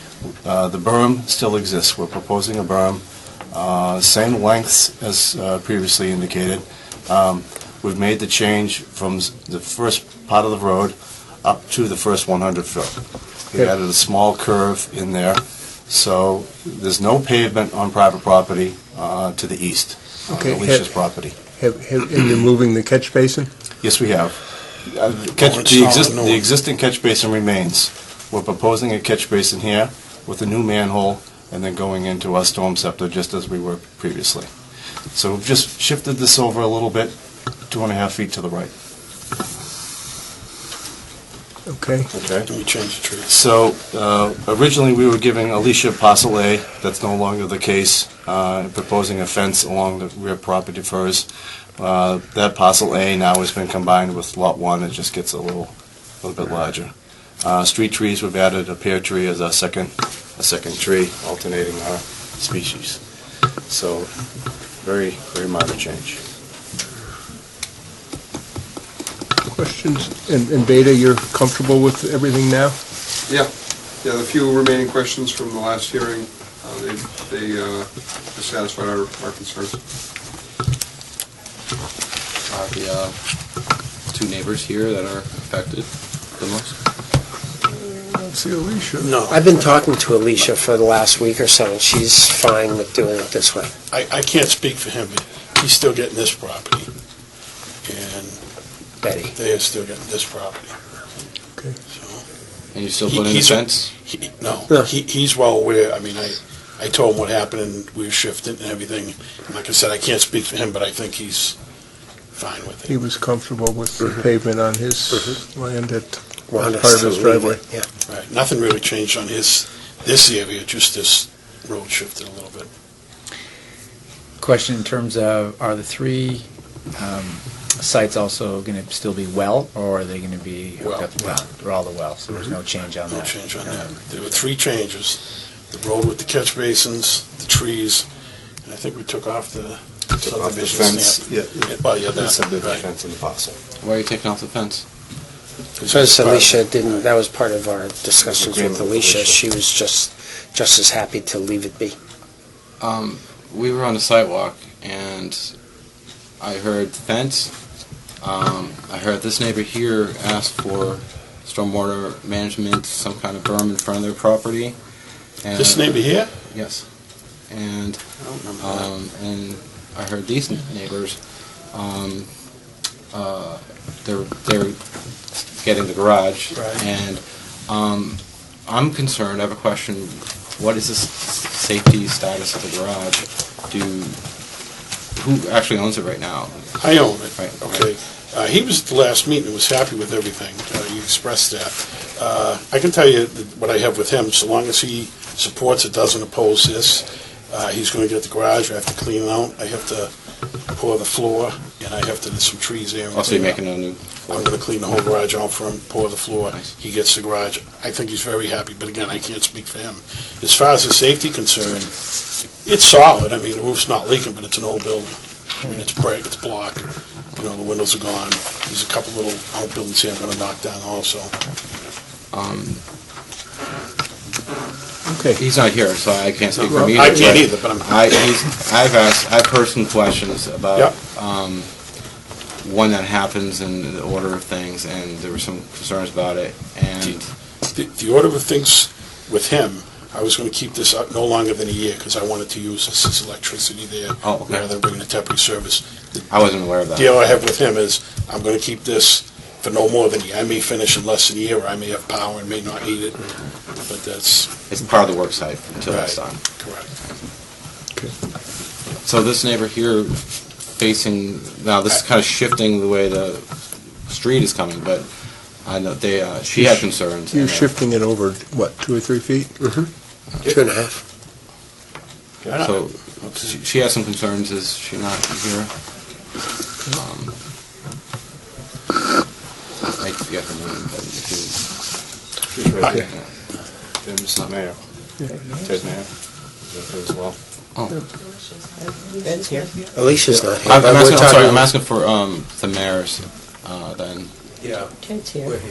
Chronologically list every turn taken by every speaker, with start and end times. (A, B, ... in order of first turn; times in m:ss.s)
0:00.4-0:13.0 A
0:13.5-0:21.4 A
0:20.3-0:20.9 B
0:21.5-0:23.5 B
0:23.8-0:34.5 A
0:25.4-0:26.4 C
0:35.1-0:37.2 A
0:37.7-0:38.7 A
0:41.7-0:42.1 B
0:42.1-0:42.5 A
0:42.5-0:43.3 C
0:43.2-0:51.3 A
0:51.8-1:03.0 A
1:03.7-1:04.1 A
1:04.8-1:06.2 A
1:09.5-1:12.8 B
1:14.0-1:19.8 D
1:22.5-1:23.2 E
1:24.1-1:26.8 E
1:28.0-1:29.2 B
1:29.0-1:29.5 C
1:29.3-1:33.7 F
1:33.9-1:36.9 C
1:37.8-1:38.4 C
1:39.0-1:39.3 F
1:39.3-1:40.8 C
1:41.9-1:42.2 C
1:42.7-1:43.9 E
1:43.0-1:51.6 C
1:52.3-1:53.0 C
1:52.8-1:57.6 B
1:56.5-1:57.8 F
1:58.1-2:02.7 C
2:04.4-2:06.4 G
2:07.0-2:13.9 G
2:10.8-2:11.2 C
2:13.1-2:15.2 C
2:15.7-2:18.0 C
2:18.6-2:22.8 C
2:20.2-2:23.6 A
2:23.8-2:24.8 E
2:25.8-2:27.0 C
2:25.9-2:32.0 F
2:28.2-2:29.4 A
2:32.8-2:35.5 E
2:36.4-2:37.5 E
2:38.2-2:44.8 E
2:45.4-2:46.9 E
2:45.5-2:46.3 C
2:47.5-2:48.0 E
2:48.2-2:48.9 C
2:48.6-2:52.3 E
2:53.1-2:54.8 E
2:55.4-3:04.2 E
2:56.5-2:56.8 C
3:05.2-3:07.9 E
3:06.8-3:20.1 C
3:20.7-3:23.6 C
3:23.1-3:24.6 E
3:24.3-3:31.9 C
3:32.6-3:41.3 C
3:42.3-3:42.8 E
3:45.0-3:45.4 B
3:45.4-3:51.9 E
3:46.5-3:48.4 C
3:46.7-3:47.1 B
3:52.6-3:57.3 E
3:57.7-4:06.2 C
4:04.2-4:04.7 E
4:06.3-4:07.3 E
4:06.9-4:13.3 C
4:13.9-4:14.5 C
4:14.7-4:16.4 E
4:15.9-4:16.9 C
4:19.0-4:23.5 E
4:24.0-4:27.7 E
4:26.5-4:29.6 B
4:30.4-4:31.0 F
4:32.4-4:33.5 C
4:32.6-4:35.7 E
4:36.9-4:37.3 E
4:40.0-4:41.6 E
4:42.5-4:43.1 A
4:42.8-4:43.2 E
4:44.0-4:44.8 A
4:45.5-4:46.1 A
4:46.6-4:47.4 A
4:47.8-4:48.0 E
4:49.9-4:51.7 F
4:50.7-4:54.3 E